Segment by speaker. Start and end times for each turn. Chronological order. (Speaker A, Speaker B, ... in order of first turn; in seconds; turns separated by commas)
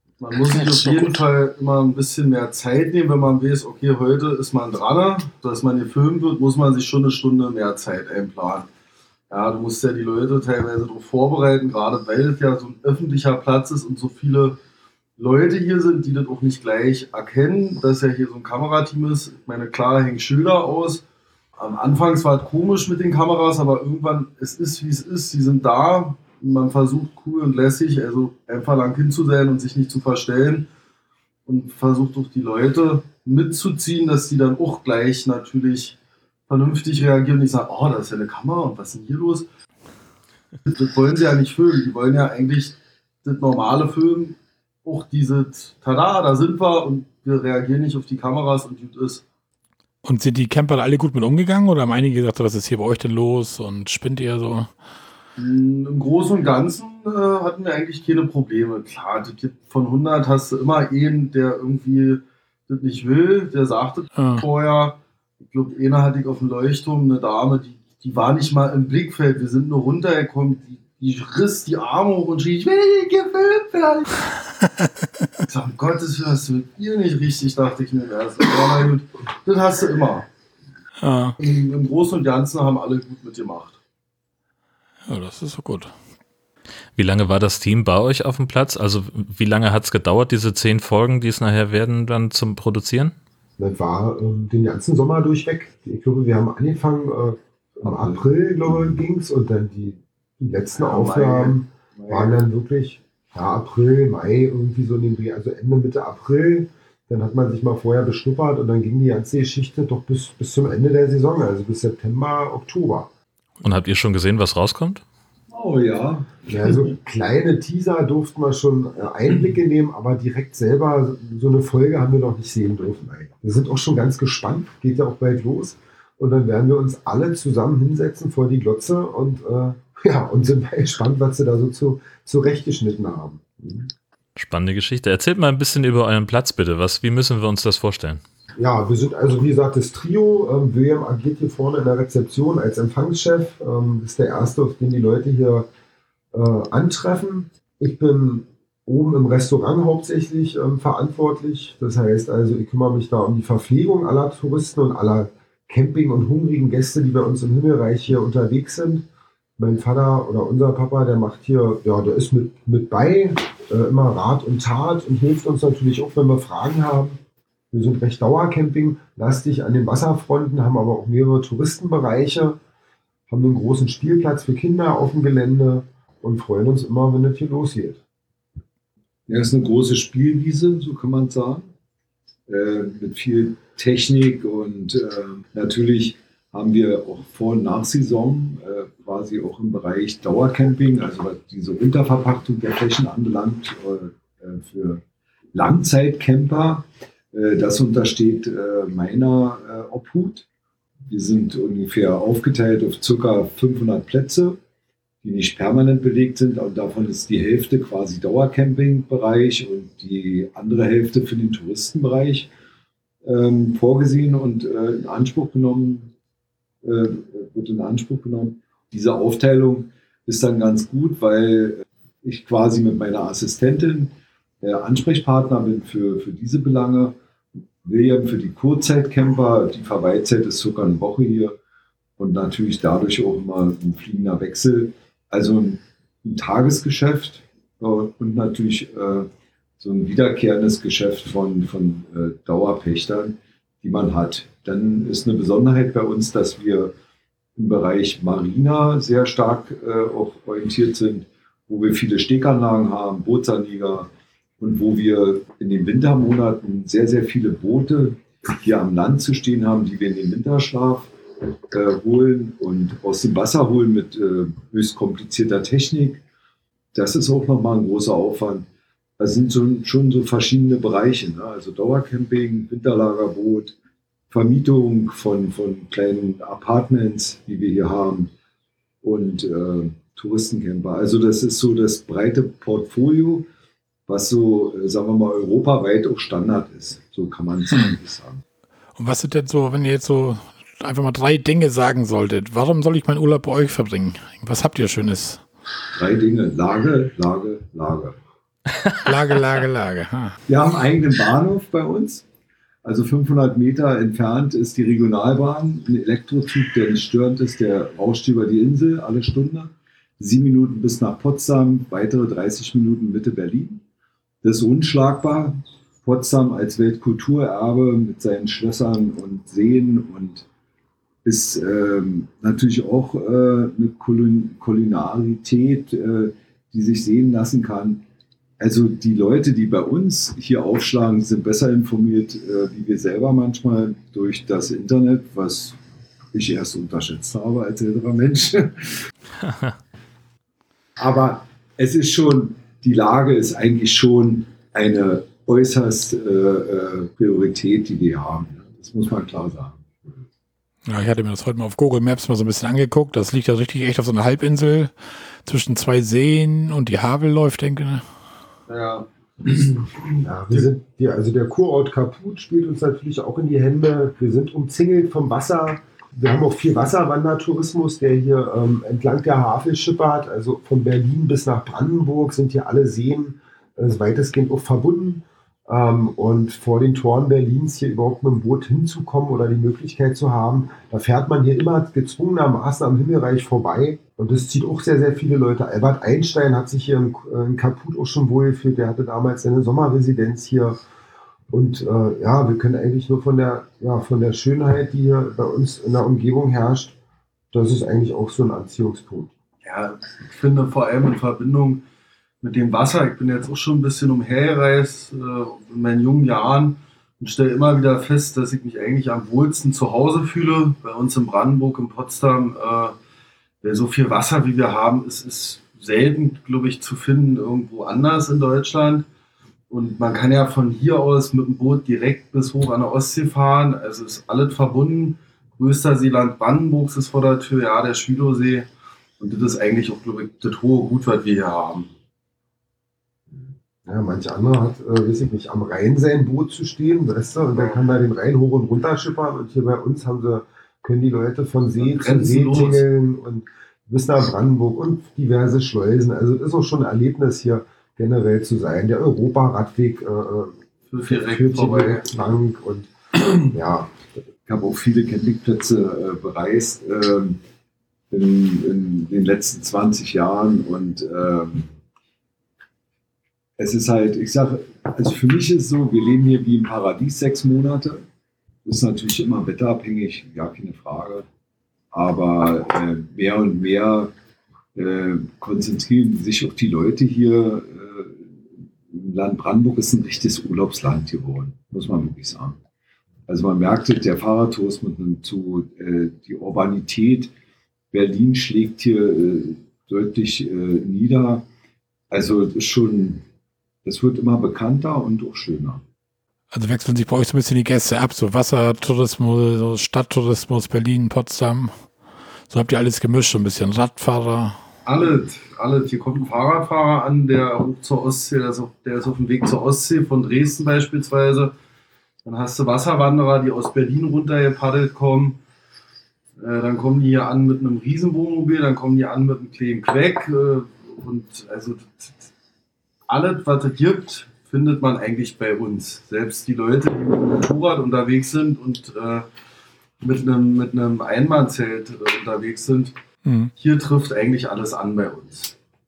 Speaker A: 0.2-8.7, Speaker A: 9.3-14.6, Speaker A: 15.2-21.0, Speaker A: 21.6-30.7, Speaker A: 31.5-36.0, Speaker A: 36.5-39.5, Speaker A: 40.6-49.2, Speaker B: 50.0-54.7, Speaker A: 55.4-74.1, Speaker B: 64.2-64.4, Speaker A: 75.5-80.3, Speaker B: 81.0-81.4, Speaker A: 81.4-83.8, Speaker B: 85.1-85.9, Speaker C: 87.0-93.1, Speaker D: 93.6-113.1, Speaker E: 97.8-99.0, Speaker E: 100.8-102.4, Speaker C: 113.6-115.0, Speaker E: 115.5-116.8, Speaker D: 116.5-133.9, Speaker C: 134.4-138.2, Speaker D: 138.6-145.7, Speaker D: 146.3-159.0, Speaker D: 159.6-167.2, Speaker D: 167.7-172.6, Speaker D: 173.3-178.0, Speaker E: 179.3-181.7, Speaker E: 182.5-195.0, Speaker E: 195.5-200.5, Speaker E: 201.1-204.6, Speaker E: 205.2-212.5, Speaker E: 213.2-216.1, Speaker E: 216.8-227.2, Speaker E: 227.8-231.6, Speaker E: 232.2-246.9, Speaker E: 247.6-261.1, Speaker E: 261.7-266.2, Speaker E: 266.9-268.7, Speaker E: 269.2-273.8, Speaker E: 274.3-278.3, Speaker E: 279.0-283.5, Speaker E: 284.1-288.4, Speaker B: 288.9-295.4, Speaker E: 295.9-298.2, Speaker B: 299.0-300.4, Speaker E: 300.5-302.3, Speaker E: 302.8-313.8, Speaker E: 314.4-320.4, Speaker E: 321.2-328.0, Speaker E: 328.6-335.8, Speaker E: 336.3-339.1, Speaker E: 341.0-349.8, Speaker B: 350.9-358.1, Speaker A: 358.7-360.6, Speaker D: 360.2-390.8, Speaker D: 391.5-396.9, Speaker D: 397.5-399.3, Speaker A: 399.6-401.8, Speaker A: 402.4-412.9, Speaker A: 413.6-419.1, Speaker A: 419.7-428.7, Speaker A: 429.2-431.9, Speaker D: 433.9-453.9, Speaker A: 441.8-442.9, Speaker A: 450.9-452.1, Speaker E: 454.5-457.4, Speaker E: 458.1-461.7, Speaker E: 463.6-468.1, Speaker E: 468.6-471.3, Speaker E: 471.9-474.1, Speaker E: 474.8-478.3, Speaker E: 478.9-482.6, Speaker E: 483.3-487.3, Speaker E: 487.9-491.4, Speaker E: 492.1-493.2, Speaker E: 493.8-495.8, Speaker B: 496.5-501.7, Speaker B: 502.5-504.6, Speaker A: 504.9-511.5, Speaker A: 512.2-515.4, Speaker A: 516.4-522.3, Speaker A: 523.1-529.3, Speaker A: 530.0-532.9, Speaker B: 533.2-533.5, Speaker A: 533.6-535.6